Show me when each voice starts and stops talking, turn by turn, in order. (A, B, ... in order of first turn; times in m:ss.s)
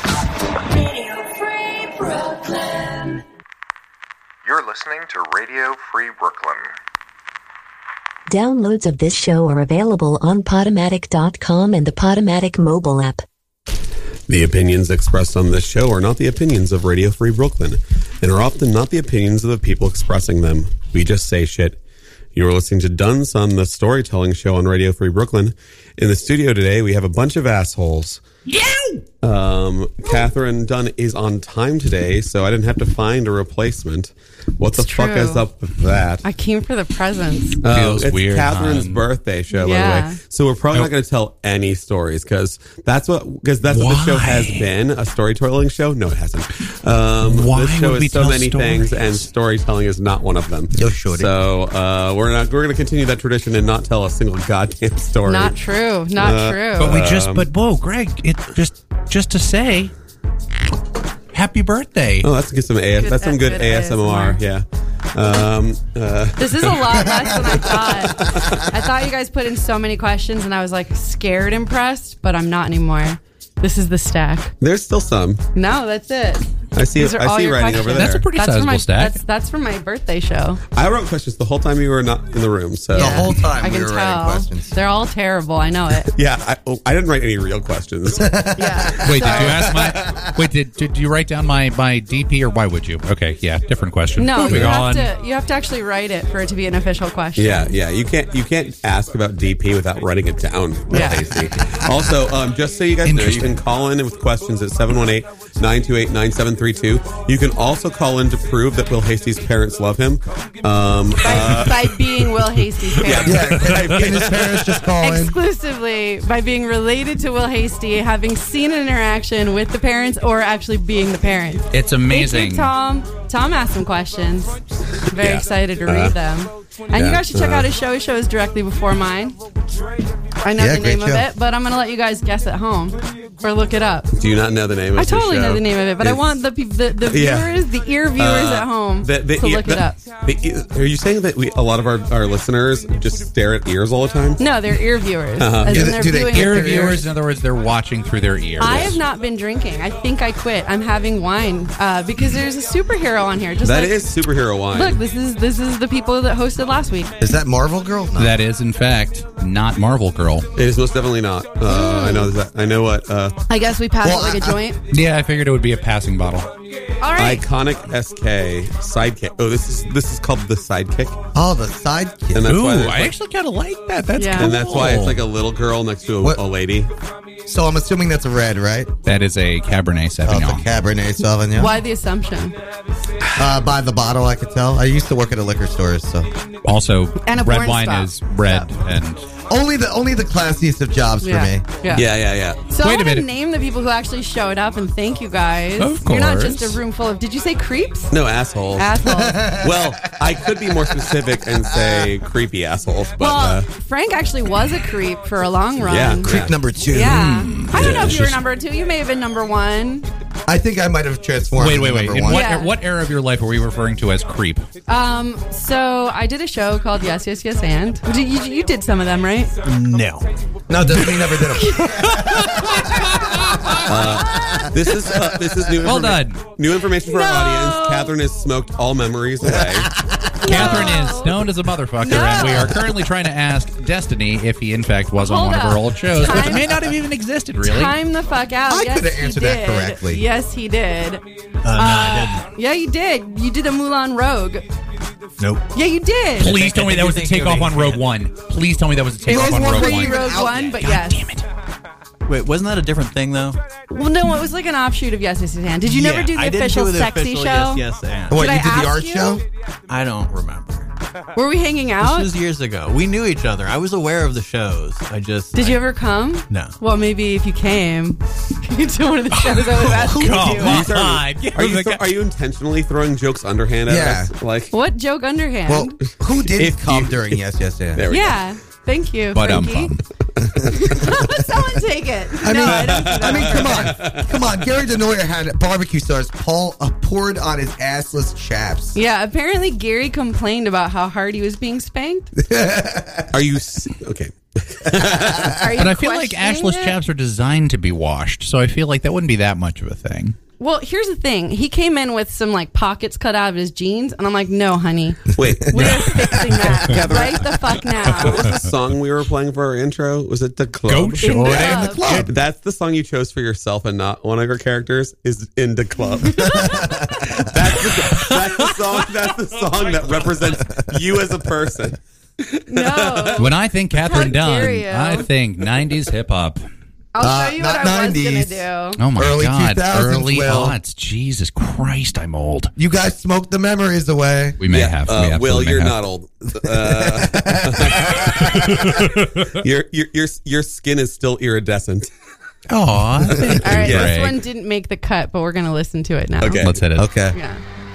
0:04.4-0:06.7 A
0:08.3-0:13.2 B
0:14.3-0:21.8 C
0:22.4-0:28.2 C
0:28.5-0:29.0 D
0:29.2-0:36.2 C
0:34.7-0:35.4 E
0:36.2-0:37.6 E
0:37.6-0:55.6 C
0:37.6-0:39.0 D
0:39.5-0:40.2 E
0:43.6-0:44.7 D
0:47.2-0:49.2 D
0:50.7-0:51.3 F
0:55.3-0:57.0 E
0:56.1-0:57.4 C
0:56.8-0:59.9 D
1:01.3-1:02.3 D
1:02.2-1:08.7 C
1:03.0-1:04.4 E
1:06.4-1:14.5 E
1:14.6-1:15.4 C
1:15.5-1:20.6 E
1:16.7-1:18.2 C
1:17.9-1:19.2 D
1:20.7-1:23.4 C
1:22.9-1:24.7 F
1:22.9-1:26.1 E
1:26.0-1:29.6 C
1:28.2-1:30.3 F
1:28.5-1:29.6 E
1:29.0-1:35.1 D
1:34.2-1:37.7 E
1:37.4-1:52.4 C
1:40.9-1:41.2 E
1:41.6-1:41.9 F
1:43.0-1:43.6 D
1:51.2-1:53.5 E
1:53.0-1:54.8 C
1:53.2-1:55.4 F
1:53.5-1:54.1 D
1:55.0-2:04.6 E
2:01.7-2:02.7 D
2:05.1-2:09.4 E
2:05.1-2:06.1 C
2:06.9-2:07.7 C
2:10.4-2:14.1 E
2:10.6-2:11.3 F
2:14.1-2:16.4 C
2:14.9-2:20.0 E
2:17.0-2:17.6 C
2:18.2-2:24.4 C
2:24.4-2:27.0 E
2:25.4-2:26.1 C
2:25.6-2:27.1 F
2:26.3-2:29.0 D
2:28.6-2:34.1 E
2:28.6-2:28.9 C
2:33.6-2:35.0 C
2:34.7-2:37.2 E
2:37.2-2:38.4 F
2:38.2-2:40.5 D
2:40.6-2:43.4 C
2:41.6-2:42.3 E
2:43.5-2:44.8 E
2:44.0-2:44.6 F
2:44.9-2:46.5 D
2:47.0-2:47.4 E
2:47.2-2:51.2 C
2:51.3-2:52.5 F
2:52.3-2:53.1 C
2:52.4-2:55.2 D
2:54.2-2:54.5 E
2:54.3-2:56.9 C
2:57.4-2:58.9 F
2:59.0-3:00.6 D
3:00.2-3:01.8 F
3:01.5-3:02.5 E
3:03.4-3:06.3 F
3:06.6-3:09.2 D
3:07.2-3:08.6 E
3:09.5-3:11.6 F
3:11.2-3:12.1 E
3:11.9-3:12.6 C
3:12.6-3:18.1 E
3:12.8-3:13.2 D
3:15.8-3:16.8 D
3:18.1-3:18.9 C
3:18.7-3:19.5 E
3:19.0-3:20.0 F
3:19.6-3:23.7 C
3:21.7-3:22.1 F
3:23.2-3:30.1 E
3:25.8-3:26.6 C
3:26.2-3:27.3 F
3:26.9-3:28.4 D
3:27.7-3:28.3 C
3:30.4-3:32.5 F
3:31.6-3:34.6 D
3:32.3-3:32.7 E
3:34.9-3:39.6 E
3:39.6-3:40.3 G
3:40.7-3:42.8 F
3:40.9-3:41.3 G
3:41.6-3:41.9 E
3:42.0-3:42.6 G
3:43.6-3:45.4 F
3:43.8-3:49.9 C
3:44.4-3:44.6 E
3:45.8-3:46.4 D
3:47.0-3:48.1 E
3:49.4-3:50.5 F
3:50.4-3:51.4 E
3:50.4-3:57.9 D
3:50.5-3:50.9 C
3:52.0-3:52.8 E
3:55.2-3:56.7 E
3:57.6-4:01.2 E
3:58.7-4:00.2 F
4:01.6-4:02.5 G
4:01.7-4:04.6 E
4:05.4-4:05.7 G
4:05.7-4:06.6 E
4:06.4-4:11.4 D
4:06.4-4:08.1 G
4:09.2-4:10.8 F
4:09.3-4:11.3 E
4:12.2-4:13.6 G
4:13.9-4:19.4 E
4:15.8-4:18.5 G
4:18.3-4:19.4 F
4:19.9-4:20.9 G
4:21.3-4:22.3 E
4:22.0-4:25.8 G
4:25.5-4:30.8 E
4:26.5-4:26.8 G
4:29.6-4:30.1 G
4:29.8-4:32.0 D
4:30.5-4:34.7 C
4:33.9-4:34.3 F
4:34.7-4:36.0 E
4:35.7-4:38.0 F
4:36.4-4:37.4 C
4:37.9-4:38.4 C
4:38.1-4:39.9 E
4:39.3-4:40.0 D
4:40.4-4:41.2 C
4:40.7-4:43.9 E
4:40.8-4:41.1 F
4:42.4-4:49.0 F
4:42.7-4:44.4 C
4:48.9-4:52.3 E
4:52.4-4:53.3 F
4:53.3-4:55.7 C
4:55.6-4:57.0 E
4:55.8-5:00.4 D
5:00.6-5:08.5 E
5:05.3-5:23.4 C
5:10.9-5:12.3 D
5:11.2-5:12.1 E
5:11.6-5:12.3 F
5:16.3-5:16.8 E
5:16.6-5:17.1 F
5:18.0-5:18.7 D
5:22.7-5:25.3 E
5:23.4-5:26.6 D
5:27.1-5:29.0 E
5:27.2-5:30.8 F
5:29.0-5:32.7 D
5:32.8-5:34.6 F
5:34.6-5:36.0 D
5:34.7-5:42.1 C
5:36.6-5:38.8 F
5:42.7-5:44.4 D
5:43.6-5:46.6 E
5:43.8-5:44.1 C
5:46.4-5:46.8 C
5:46.6-5:47.1 D
5:46.9-5:47.4 F
5:47.3-5:47.6 E